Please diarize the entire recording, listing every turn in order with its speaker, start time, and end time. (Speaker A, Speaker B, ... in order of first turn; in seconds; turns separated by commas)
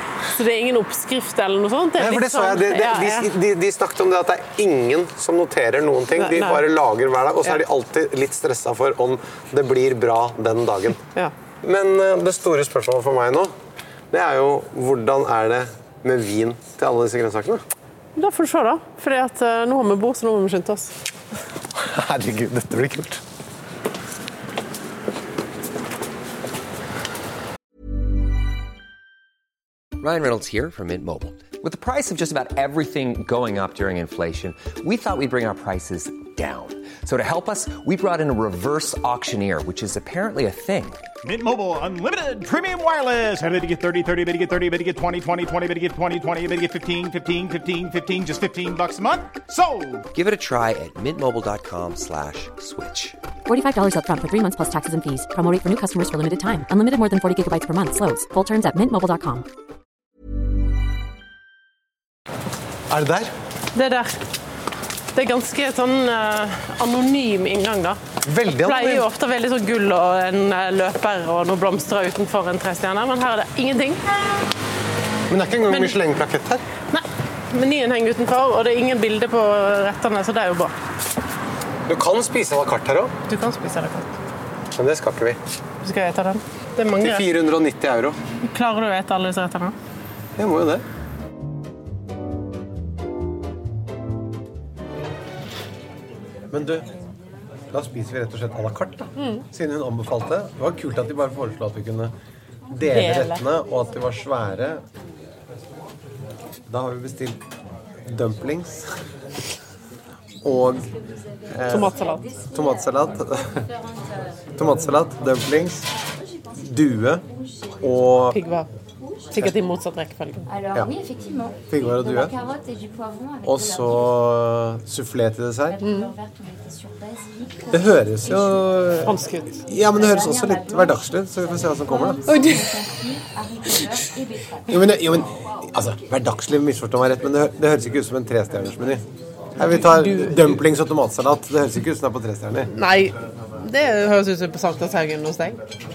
Speaker A: 0.3-3.3, Speaker B: 2.0-11.0, Speaker A: 6.1-6.6, Speaker B: 11.6-13.5, Speaker B: 14.1-17.6, Speaker A: 18.1-20.9, Speaker B: 21.7-23.2, Speaker C: 30.0-41.0, Speaker D: 41.2-50.1, Speaker C: 50.1-53.1, Speaker E: 53.5-59.4, Speaker B: 62.9-63.3, Speaker A: 63.8-64.2, Speaker A: 65.1-68.0, Speaker B: 68.2-69.1, Speaker A: 68.6-74.0, Speaker B: 75.3-76.6, Speaker A: 75.7-75.9, Speaker A: 76.9-80.7, Speaker B: 81.9-83.1, Speaker A: 83.3-84.1, Speaker B: 84.7-85.4, Speaker A: 85.8-87.3, Speaker B: 87.0-88.2, Speaker A: 88.4-89.8, Speaker B: 90.4-90.8, Speaker B: 96.5-96.9, Speaker B: 97.7-102.1, Speaker A: 99.2-99.4, Speaker B: 102.7-104.8, Speaker A: 102.8-103.4, Speaker B: 106.7-107.4, Speaker B: 108.1-108.9, Speaker B: 110.4-110.8, Speaker B: 111.5-111.9, Speaker A: 111.7-112.2, Speaker B: 112.5-113.6, Speaker B: 114.6-115.9, Speaker B: 116.6-117.2, Speaker B: 117.8-118.4, Speaker A: 118.3-118.7, Speaker A: 119.3-120.4, Speaker B: 121.7-122.3, Speaker B: 123.4-125.8, Speaker A: 125.8-126.1, Speaker B: 127.7-129.2, Speaker A: 129.0-129.6, Speaker B: 129.7-132.3, Speaker A: 132.3-132.8, Speaker B: 134.7-139.0, Speaker B: 139.6-142.7, Speaker A: 139.7-140.6, Speaker A: 142.7-145.6